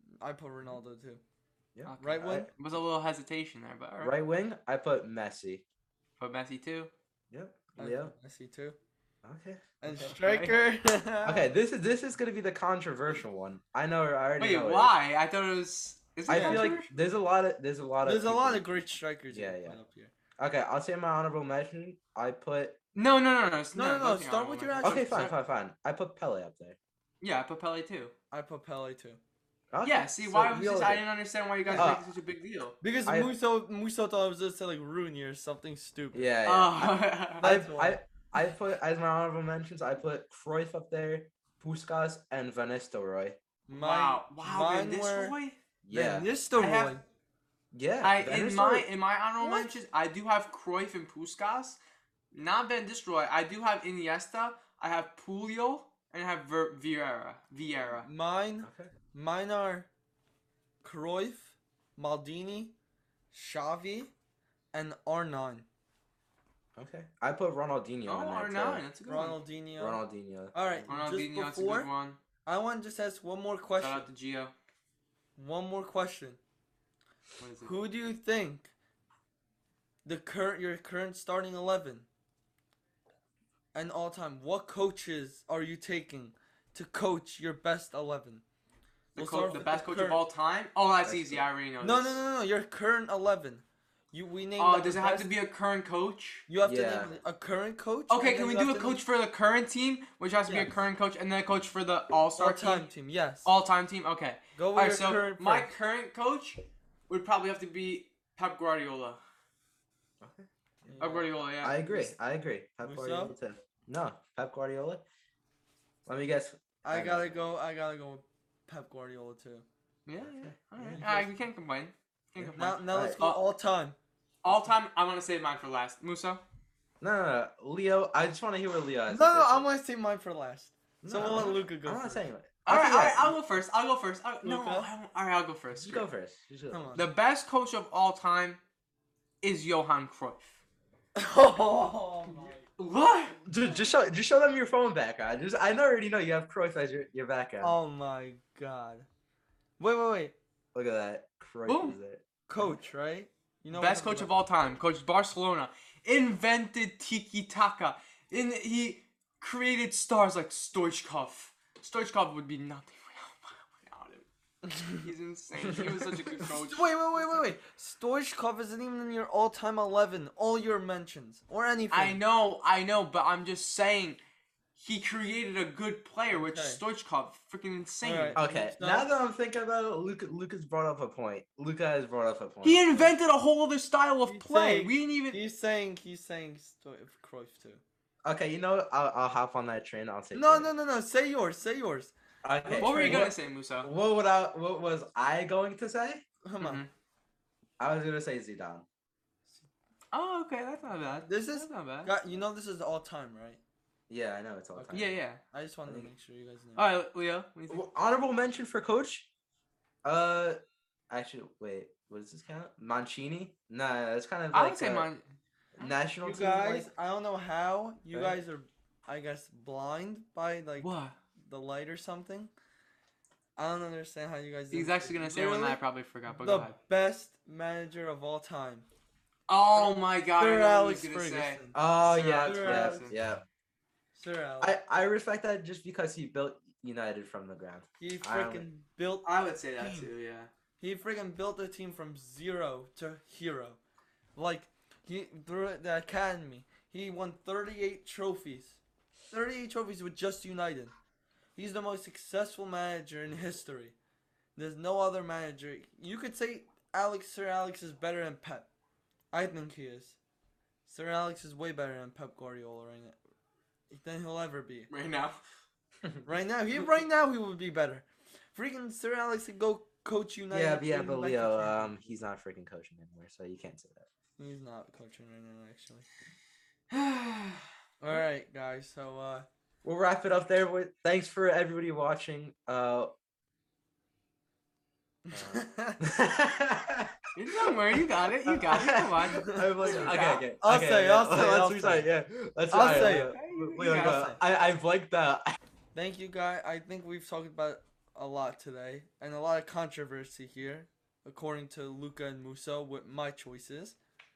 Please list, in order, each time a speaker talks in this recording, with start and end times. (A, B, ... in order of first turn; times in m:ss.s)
0:00.2-0:01.2 A
0:01.8-0:02.5 B
0:01.9-0:04.1 C
0:02.0-0:02.5 A
0:04.0-0:05.6 B
0:06.2-0:06.9 C
0:07.3-0:08.1 B
0:07.8-0:08.8 A
0:09.2-0:10.1 B
0:09.8-0:11.5 A
0:10.1-0:10.6 C
0:11.2-0:14.9 B
0:14.4-0:16.9 C
0:16.3-0:19.8 B
0:16.3-0:16.7 A
0:18.0-0:20.1 A
0:20.4-0:22.8 B
0:23.0-0:25.3 C
0:23.8-0:25.4 A
0:24.8-0:26.8 B
0:27.2-0:28.1 C
0:28.3-0:29.2 A
0:29.7-0:31.0 B
0:29.8-0:32.8 C
0:31.6-0:32.0 A
0:31.8-0:32.0 B
0:32.8-0:36.3 A
0:33.1-0:33.3 B
0:36.1-0:43.4 B
0:36.4-0:37.5 C
0:37.4-0:38.0 A
0:43.7-0:45.4 A
0:43.7-0:45.6 C
0:45.8-0:46.3 B
0:45.9-0:47.0 A
0:46.6-0:46.9 C
0:47.7-0:48.9 B
0:48.0-0:51.8 C
0:49.4-0:49.8 A
0:52.3-0:58.1 C
0:58.0-0:59.9 A
0:58.6-0:58.9 B
1:00.8-1:02.7 A
1:03.3-1:04.1 A
1:04.7-1:05.7 A
1:06.8-1:08.8 B
1:08.1-1:09.4 C
1:09.1-1:10.0 A
1:09.8-1:10.9 B
1:10.5-1:11.9 A
1:10.9-1:12.2 C
1:12.4-1:14.0 A
1:13.8-1:14.5 C
1:15.4-1:16.4 A
1:17.4-1:17.7 C
1:17.6-1:18.7 A
1:20.0-1:22.1 A
1:23.7-1:28.4 A
1:29.2-1:32.2 C
1:29.2-1:30.2 A
1:31.0-1:31.5 B
1:31.8-1:35.3 A
1:34.6-1:36.5 C
1:36.5-1:39.0 A
1:36.6-1:37.1 B
1:38.1-1:42.9 C
1:42.4-1:43.5 A
1:43.4-1:49.2 C
1:44.6-1:45.7 A
1:50.2-1:51.0 B
1:50.9-1:51.3 A
1:51.0-1:51.9 C
1:51.6-1:55.0 B
1:52.8-1:53.3 A
1:56.1-1:57.5 B
1:56.8-1:59.6 A
2:00.1-2:03.4 C
2:00.2-2:01.3 B
2:02.4-2:03.2 B
2:02.6-2:04.0 A
2:04.4-2:06.4 C
2:07.0-2:09.7 B
2:09.1-2:12.3 A
2:11.0-2:13.4 B
2:12.6-2:16.1 C
2:14.4-2:14.9 A
2:15.8-2:16.9 B
2:16.7-2:17.1 A
2:17.0-2:18.6 C
2:19.4-2:20.6 C
2:21.2-2:22.6 A
2:22.8-2:23.4 C
2:23.5-2:27.8 B
2:27.6-2:29.1 A
2:29.8-2:30.4 A
2:30.7-2:32.7 B
2:31.7-2:32.0 C
2:32.5-2:34.3 A
2:33.7-2:44.3 C
2:44.7-2:45.0 A
2:44.8-2:46.8 C
2:46.5-2:52.2 A
2:51.9-2:54.2 C
2:54.8-2:58.4 C
2:56.3-2:56.8 A
2:58.0-2:59.1 A
2:58.4-3:03.1 B
3:02.6-3:05.4 C
3:04.3-3:07.8 A
3:08.2-3:10.7 B
3:10.3-3:13.3 A
3:12.4-3:16.2 B
3:12.8-3:13.9 C
3:16.4-3:16.8 A
3:16.6-3:16.9 C
3:17.8-3:18.9 B
3:20.1-3:22.1 C
3:21.3-3:23.6 A
3:24.1-3:25.2 B
3:24.8-3:25.0 A
3:24.9-3:25.4 C
3:25.5-3:26.8 A
3:26.8-3:27.8 C
3:27.7-3:29.3 B
3:30.0-3:30.6 B
3:31.1-3:35.1 B
3:34.5-3:35.2 C
3:35.8-3:36.9 B
3:36.2-3:42.5 A
3:38.1-3:38.4 B
3:40.8-3:41.2 C
3:43.6-3:45.8 A
3:44.7-3:46.8 C
3:46.4-3:48.9 A
3:49.5-3:53.1 C
3:49.8-3:51.8 A
3:51.7-3:53.4 B
3:52.4-3:53.1 A
3:54.2-3:54.8 A
3:54.6-3:58.6 B
3:58.0-4:00.1 A
3:59.2-4:00.5 C
4:00.8-4:03.8 A
4:04.4-4:08.8 A
4:09.3-4:10.9 A
4:11.6-4:14.0 A
4:14.6-4:18.7 A
4:19.3-4:20.2 A
4:20.9-4:23.2 A
4:23.9-4:24.9 A
4:24.9-4:25.4 C
4:26.3-4:32.0 A
4:30.5-4:34.1 B
4:34.4-4:36.1 A
4:36.9-4:38.2 C
4:38.0-4:39.5 A
4:39.8-4:43.1 B
4:45.3-4:46.0 A
4:45.3-4:47.2 B
4:47.3-4:50.5 C
4:48.5-4:55.6 B
4:49.4-4:52.1 A
4:52.7-4:53.4 A
4:52.8-4:54.4 C
4:54.0-4:54.4 A
4:55.9-5:04.0 A